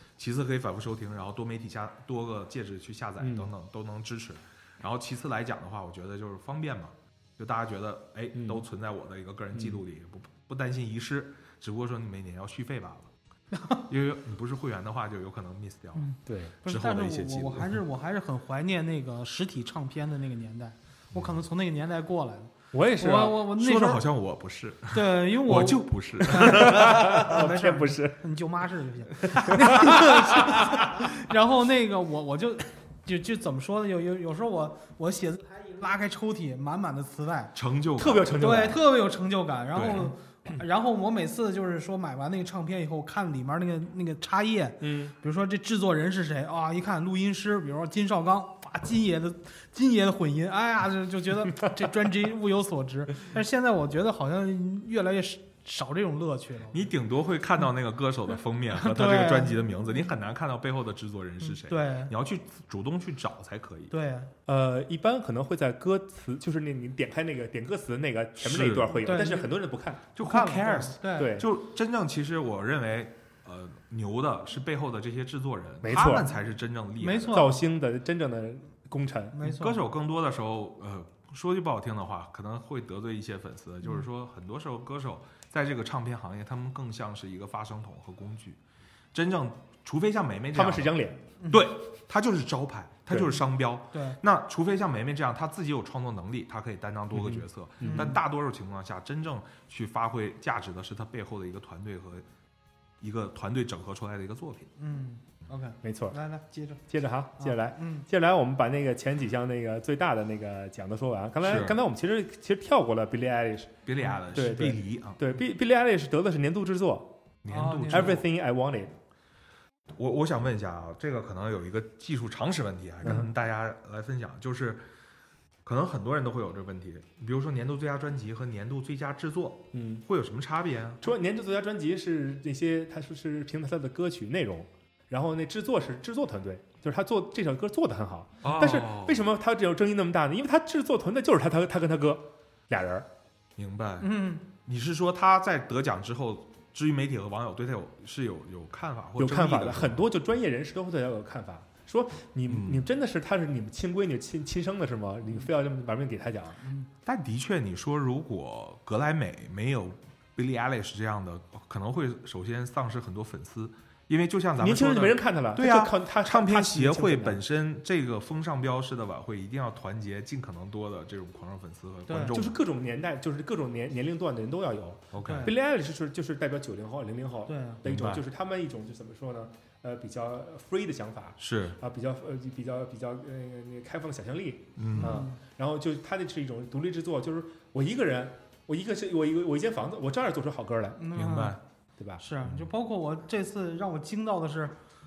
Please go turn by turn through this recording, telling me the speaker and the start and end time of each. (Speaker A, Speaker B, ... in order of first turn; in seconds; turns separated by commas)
Speaker A: 0.2-13.1, Speaker B: 3.2-3.5, Speaker B: 8.3-8.6, Speaker B: 9.5-9.8, Speaker C: 13.5-13.8, Speaker A: 13.9-16.1, Speaker C: 15.9-24.0, Speaker B: 16.2-16.6, Speaker A: 16.6-17.8, Speaker A: 21.1-21.4, Speaker B: 22.7-23.4, Speaker A: 23.5-27.5, Speaker C: 24.9-37.5, Speaker B: 26.4-28.2, Speaker B: 29.2-30.8, Speaker A: 37.5-38.7, Speaker B: 38.0-38.8, Speaker C: 38.3-56.8, Speaker A: 39.7-40.1, Speaker B: 44.8-45.1, Speaker A: 56.7-63.9, Speaker C: 58.8-59.6, Speaker C: 61.4-62.1, Speaker C: 63.9-64.3, Speaker B: 64.5-70.1, Speaker A: 68.4-69.0, Speaker C: 69.0-69.5, Speaker A: 70.2-77.5, Speaker C: 70.2-71.4, Speaker B: 71.2-71.5, Speaker B: 75.8-76.3, Speaker C: 77.0-77.6, Speaker B: 77.3-79.4, Speaker C: 79.3-79.8, Speaker A: 79.4-88.6, Speaker A: 89.1-102.2, Speaker B: 90.5-91.2, Speaker B: 93.1-93.4, Speaker C: 93.9-94.2, Speaker B: 97.1-98.2, Speaker C: 97.8-98.2, Speaker A: 103.0-104.7, Speaker C: 104.8-108.0, Speaker B: 105.8-106.2, Speaker B: 106.9-117.2, Speaker A: 111.4-111.8, Speaker A: 113.8-115.2, Speaker A: 117.4-118.3, Speaker C: 117.5-118.2, Speaker B: 117.9-119.0, Speaker A: 120.0-124.8, Speaker B: 123.0-123.3, Speaker A: 125.6-131.1, Speaker B: 129.7-130.0, Speaker B: 131.0-143.1, Speaker A: 138.4-139.2, Speaker A: 143.6-150.1, Speaker C: 144.0-144.4, Speaker B: 149.2-156.6, Speaker A: 152.5-152.8, Speaker A: 157.0-172.6, Speaker B: 164.6-167.4, Speaker C: 172.1-172.3, Speaker B: 172.3-191.0, Speaker A: 175.1-175.5, Speaker C: 175.2-175.5, Speaker C: 177.5-177.8, Speaker A: 177.8-178.2, Speaker A: 181.4-181.8, Speaker A: 184.8-185.2, Speaker C: 184.9-185.4, Speaker C: 191.0-191.6, Speaker A: 191.1-191.6, Speaker B: 192.0-192.2, Speaker C: 192.2-194.7